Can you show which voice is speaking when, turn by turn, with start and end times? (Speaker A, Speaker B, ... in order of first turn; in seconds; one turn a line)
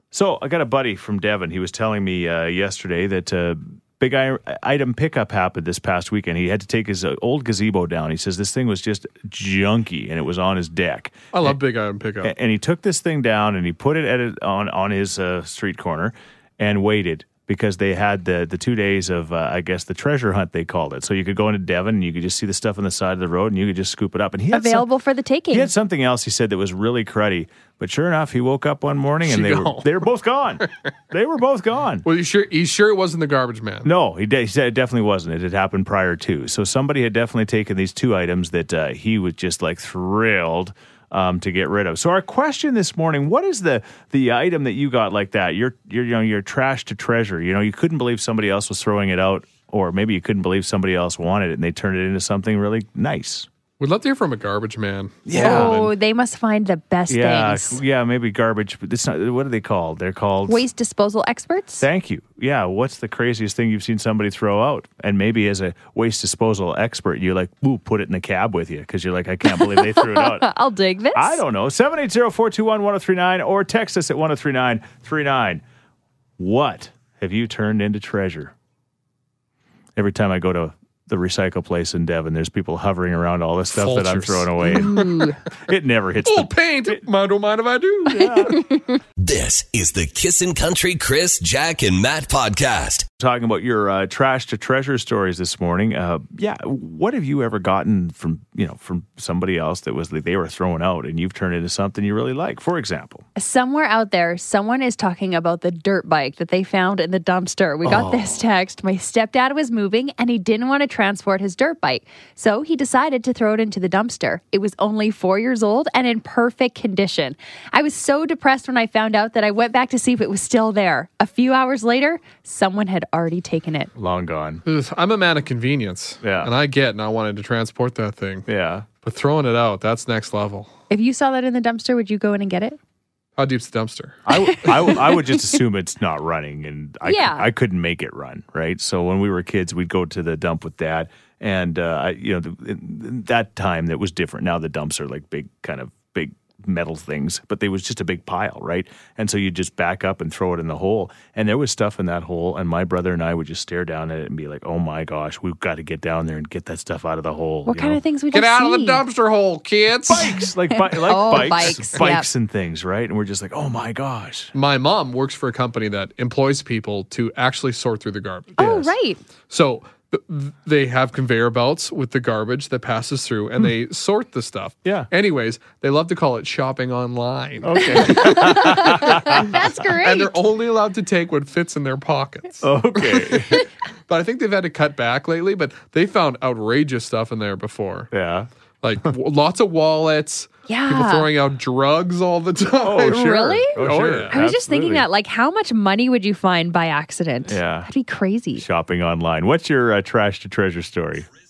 Speaker A: 0.1-11.5
Speaker B: 11.3-12.3
Speaker A: 12.2-24.9
Speaker C: 24.5-25.7
Speaker A: 25.5-32.0
Speaker B: 29.2-30.1
Speaker B: 32.0-33.9
Speaker A: 33.8-53.5
Speaker B: 53.8-55.8
Speaker A: 55.2-55.9
Speaker C: 55.3-57.8
Speaker A: 57.1-60.6
Speaker C: 60.5-61.9
Speaker A: 61.8-70.5
Speaker C: 69.5-71.4
Speaker A: 71.1-75.6
Speaker A: 76.4-78.5
Speaker A: 80.0-85.0
Speaker B: 83.7-85.3
Speaker C: 84.6-85.4
Speaker A: 85.6-87.0
Speaker B: 86.2-88.6
Speaker A: 88.1-88.6
Speaker C: 88.5-88.8
Speaker D: 89.2-93.1
Speaker A: 93.2-103.2
Speaker C: 103.3-123.9
Speaker A: 107.8-108.4
Speaker A: 124.0-124.6
Speaker B: 124.6-128.4
Speaker A: 126.2-126.5
Speaker A: 128.5-128.8
Speaker B: 129.0-130.7
Speaker C: 130.9-132.8
Speaker B: 133.4-134.7
Speaker A: 134.2-158.0
Speaker C: 134.6-135.2
Speaker C: 137.0-137.5
Speaker C: 157.7-159.0
Speaker B: 158.3-160.3
Speaker A: 160.1-164.5
Speaker C: 160.7-162.3
Speaker B: 164.5-168.6
Speaker A: 168.6-168.9
Speaker C: 168.6-169.2
Speaker B: 169.5-183.5
Speaker A: 177.6-179.5
Speaker C: 177.8-180.3
Speaker A: 182.6-183.6
Speaker B: 184.1-188.1
Speaker A: 188.1-188.5
Speaker B: 188.8-194.4
Speaker C: 190.7-191.3
Speaker A: 192.8-195.1
Speaker C: 193.1-193.8
Speaker C: 194.3-198.6
Speaker A: 197.4-197.9
Speaker A: 198.6-201.3